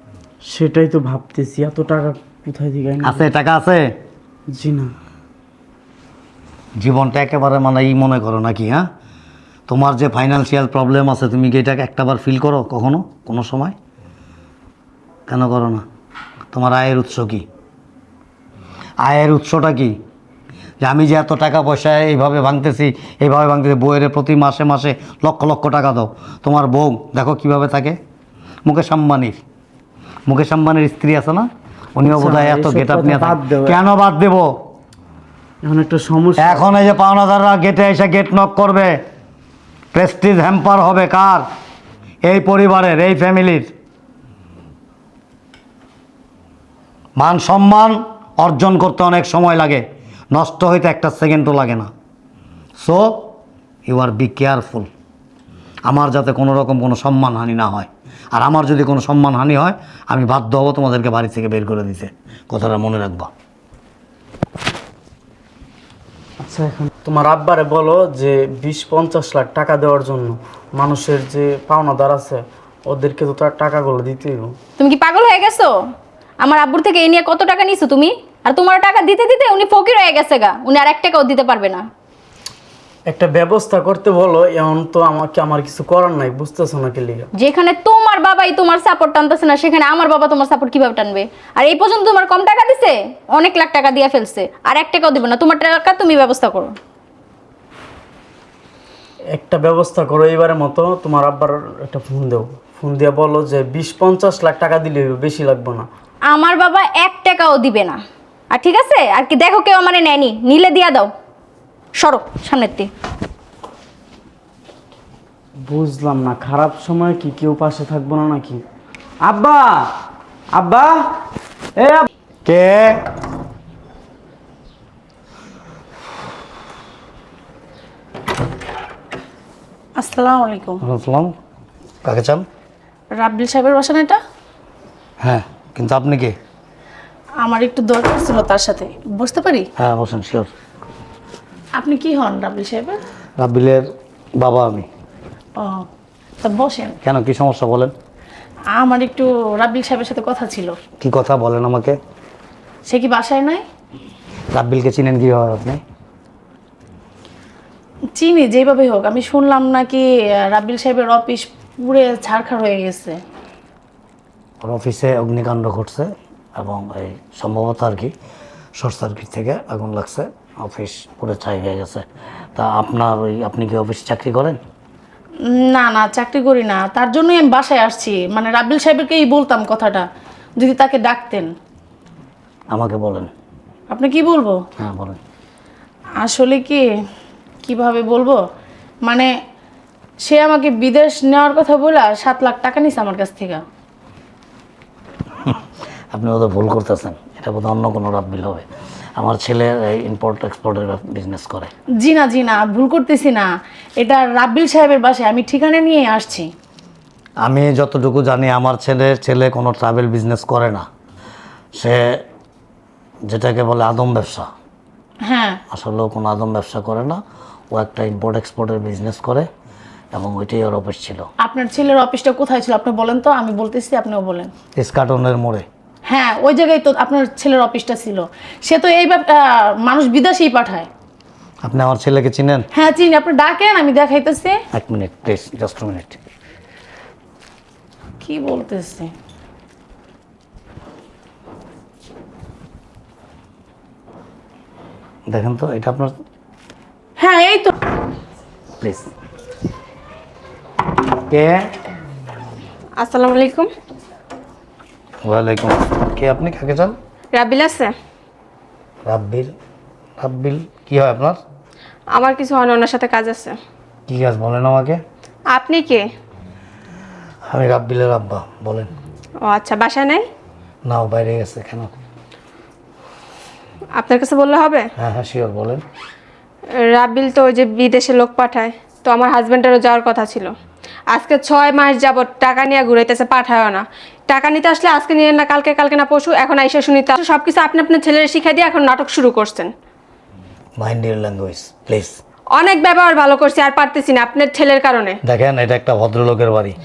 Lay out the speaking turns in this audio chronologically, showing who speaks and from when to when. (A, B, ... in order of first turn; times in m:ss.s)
0:00.5-0:03.3 A
0:03.0-0:03.9 B
0:04.5-0:04.9 A
0:06.8-0:08.8 B
0:09.7-0:13.7 B
0:15.3-0:15.8 B
0:16.5-0:17.4 B
0:19.0-0:20.0 B
0:20.8-0:28.0 B
0:28.6-0:29.4 B
0:30.3-0:34.5 B
0:32.0-0:33.8 A
0:35.6-0:36.7 A
0:36.4-0:39.0 B
0:39.9-0:41.4 B
0:42.2-0:43.7 B
0:47.2-0:51.9 B
0:52.8-0:53.3 B
0:53.8-0:54.9 B
0:55.9-1:03.3 B
1:06.4-1:14.6 A
1:14.8-1:15.7 C
1:16.4-1:21.8 C
1:23.1-1:27.3 A
1:27.3-1:36.8 C
1:39.3-1:45.9 A
1:46.3-1:48.0 C
1:48.5-1:51.1 C
1:51.9-1:52.9 C
1:55.6-1:58.6 A
1:59.2-1:59.9 A
2:00.5-2:01.0 A
2:01.8-2:02.1 A
2:02.4-2:03.0 B
2:10.0-2:10.8 D
2:10.8-2:11.3 B
2:12.0-2:12.4 B
2:13.1-2:14.2 D
2:15.2-2:16.3 B
2:17.4-2:19.7 D
2:19.8-2:20.5 B
2:21.8-2:23.0 D
2:23.4-2:23.8 B
2:24.4-2:24.9 B
2:25.6-2:25.8 D
2:26.4-2:27.0 D
2:27.0-2:27.9 B
2:28.7-2:30.7 D
2:31.0-2:32.0 B
2:32.9-2:33.6 D
2:34.5-2:35.8 B
2:38.2-2:43.2 D
2:44.6-2:48.1 B
2:48.8-2:54.6 B
2:55.5-3:00.0 D
3:00.6-3:01.5 D
3:02.7-3:03.3 B
3:03.9-3:04.6 D
3:04.8-3:05.2 B
3:06.2-3:06.8 D
3:07.6-3:08.4 D
3:10.2-3:13.6 D
3:16.1-3:21.7 B
3:22.0-3:23.4 D
3:24.0-3:26.5 D
3:27.4-3:30.8 B
3:31.8-3:32.2 B
3:33.3-3:34.5 B
3:35.2-3:35.6 D
3:35.7-3:37.2 B
3:37.7-3:39.5 B
3:40.1-3:41.3 B
3:41.4-3:44.5 D
3:44.8-3:45.6 B
3:46.1-3:50.9 D
3:51.6-3:52.6 B
3:52.7-3:54.6 D
3:54.7-3:56.2 B
3:58.2-3:59.1 D
4:05.3-4:06.1 B
4:07.2-4:07.7 D
4:08.8-4:09.1 B
4:11.3-4:11.6 B
4:13.0-4:13.7 E
4:15.2-4:16.9 B
4:17.3-4:17.9 E
4:19.0-4:19.5 B
4:20.2-4:21.4 B
4:22.2-4:23.6 E
4:24.1-4:25.0 B
4:25.5-4:26.1 E
4:27.5-4:28.9 B
4:29.4-4:30.2 E
4:30.8-4:31.9 B
4:34.0-4:34.9 E
4:35.0-4:35.8 B
4:36.9-4:40.5 E
4:41.1-4:49.7 E
4:50.8-4:52.2 B
4:52.6-4:55.2 E
4:55.2-4:56.7 B